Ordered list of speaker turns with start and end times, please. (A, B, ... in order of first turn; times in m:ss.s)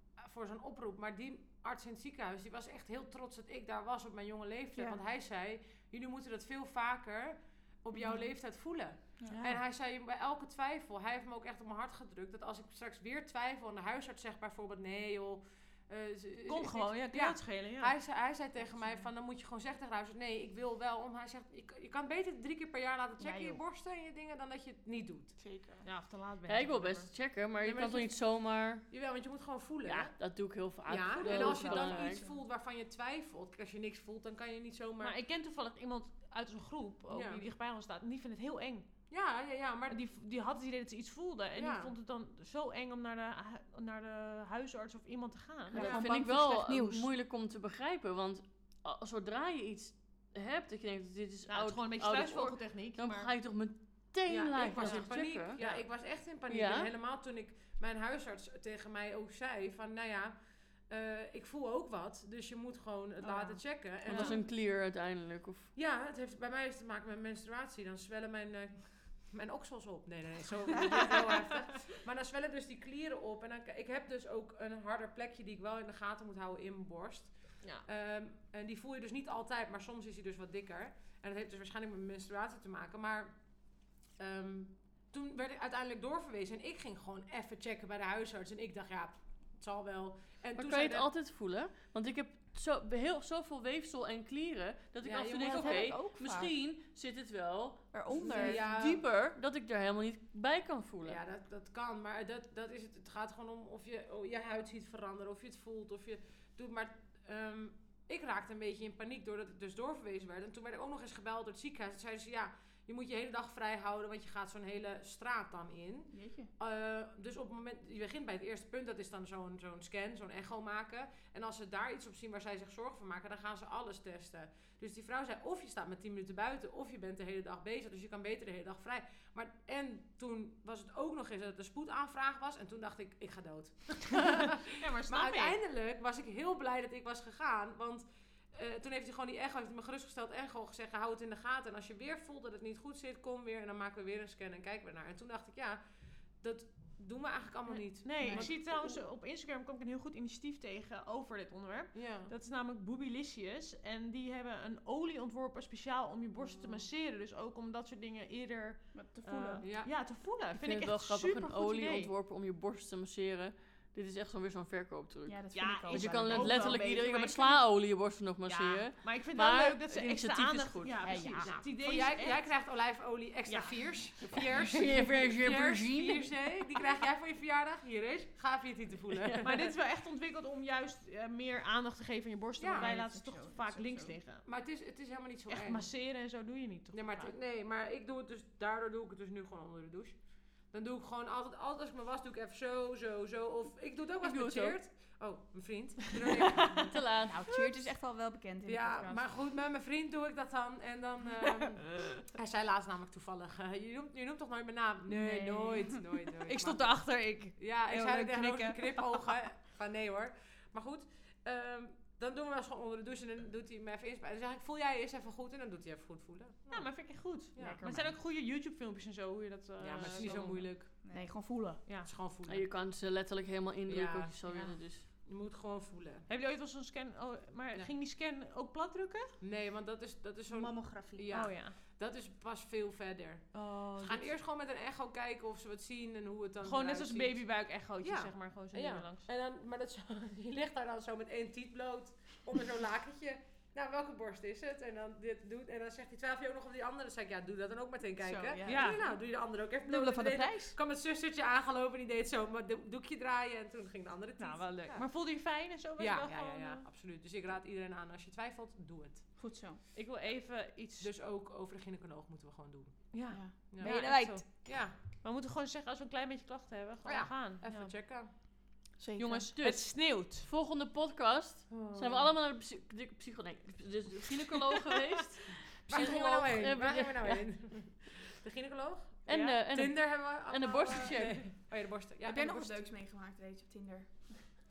0:00.2-0:25.4 A
0:04.8-0:05.0 B
0:09.3-0:09.6 C
0:16.5-0:17.9 C
0:23.2-0:23.6 B
0:25.4-0:25.9 D
0:25.8-0:27.1 C
0:26.5-0:28.8 E
0:27.6-0:30.1 A
0:29.8-0:32.2 E
0:30.9-0:35.2 A
0:31.2-0:32.1 C
0:35.0-0:38.9 C
0:37.1-0:37.5 A
0:39.1-0:40.0 A
0:39.9-0:46.0 C
0:41.6-0:41.9 A
0:45.7-0:47.1 B
0:45.8-0:46.0 A
0:45.8-0:55.6 E
0:51.5-0:53.3 C
0:54.3-1:00.4 A
0:54.8-0:55.8 C
0:56.5-0:56.9 E
1:00.9-1:04.4 A
1:04.1-1:05.7 E
1:04.1-1:04.4 C
1:05.8-1:31.1 A
1:30.6-1:41.2 E
1:35.0-1:36.0 A
1:35.4-1:36.5 B
1:37.9-1:38.7 B
1:38.3-1:39.0 A
1:41.0-2:25.8 A
1:56.1-1:56.5 B
2:14.1-2:15.6 C
2:26.4-2:29.0 A
2:27.7-2:42.1 C
2:28.2-2:28.5 B
2:31.9-2:32.3 A
2:36.4-2:36.9 A
2:38.9-2:39.8 B
2:39.6-2:39.9 A
2:40.5-2:51.2 E
2:45.3-2:46.8 B
2:45.5-2:47.6 D
2:46.2-2:46.8 C
2:48.5-2:52.5 C
2:51.0-2:51.6 D
2:51.4-2:59.7 A
2:54.7-2:56.4 E
2:59.1-2:59.6 E
2:59.4-3:04.5 C
3:02.6-3:02.9 A
3:02.7-3:04.2 D
3:04.4-3:05.9 A
3:05.5-3:07.4 C
3:06.9-3:17.0 A
3:14.2-3:14.8 E
3:16.9-3:17.7 E
3:17.2-3:19.3 B
3:18.7-3:37.8 A
3:25.2-3:26.0 B
3:26.5-3:29.3 C
3:36.7-3:40.7 C
3:37.6-3:38.2 B
3:39.8-3:40.9 A
3:41.0-3:41.3 D
3:41.1-3:41.9 B
3:42.0-3:42.7 A
3:42.5-3:45.1 E
3:43.9-3:46.3 A
3:46.3-3:49.4 C
3:49.4-4:15.0 A
3:50.5-3:51.3 D
3:51.3-3:51.8 C
3:53.5-3:54.3 C
3:56.6-3:59.3 C
4:08.2-4:09.0 B
4:08.6-4:09.0 C
4:09.8-4:10.8 B
4:14.4-4:16.8 C
4:16.0-4:19.4 A
4:19.4-4:19.8 B
4:19.9-4:21.1 C
4:21.0-4:25.0 A
4:23.1-4:27.9 C
4:23.3-4:24.6 B
4:27.0-4:28.3 A
4:29.0-4:29.5 B
4:29.2-4:30.5 C
4:29.6-4:37.5 E
4:31.7-4:32.3 A
4:35.9-4:42.8 A
4:39.3-4:41.5 E
4:39.3-4:39.6 C
4:42.2-4:44.3 B